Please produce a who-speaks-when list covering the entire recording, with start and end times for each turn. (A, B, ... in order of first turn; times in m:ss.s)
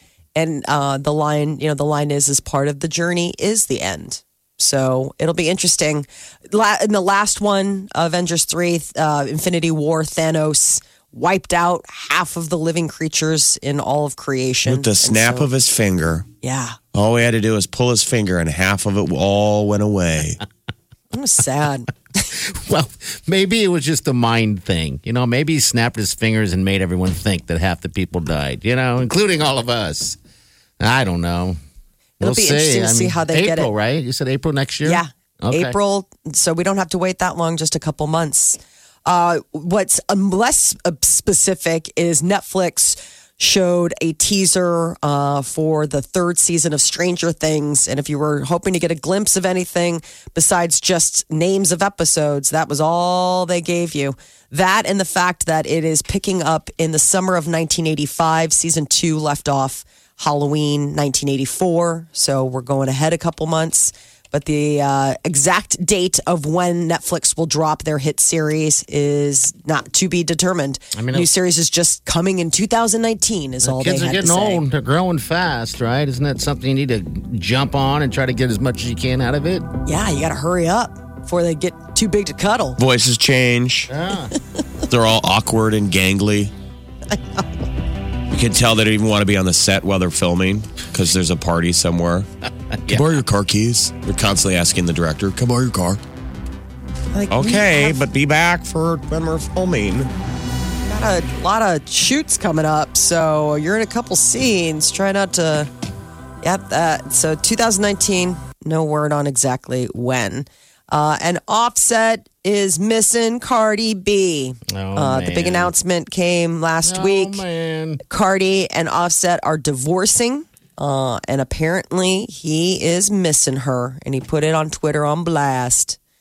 0:00.4-0:15.5 A
0:14.6-0:16.3 B
0:16.4-0:16.8 A
0:16.9-0:20.4 B
0:21.1-0:22.3 A
0:22.3-0:30.2 C
0:30.8-0:31.6 C
0:32.2-0:35.8 C
0:32.2-0:33.7 A
0:34.8-1:14.6 A
1:10.9-1:11.3 C
1:13.6-1:19.7 C
1:19.8-1:22.8 A
1:22.8-1:23.9 B
1:23.9-1:24.3 C
1:24.9-1:26.5 B
1:27.1-1:27.4 A
1:28.3-1:32.3 B
1:32.9-1:36.0 B
1:37.1-1:38.0 A
1:37.3-1:40.1 B
1:40.9-1:45.7 A
1:46.4-1:57.4 A
1:54.7-1:55.7 C
1:56.8-1:58.0 C
1:58.1-2:06.0 A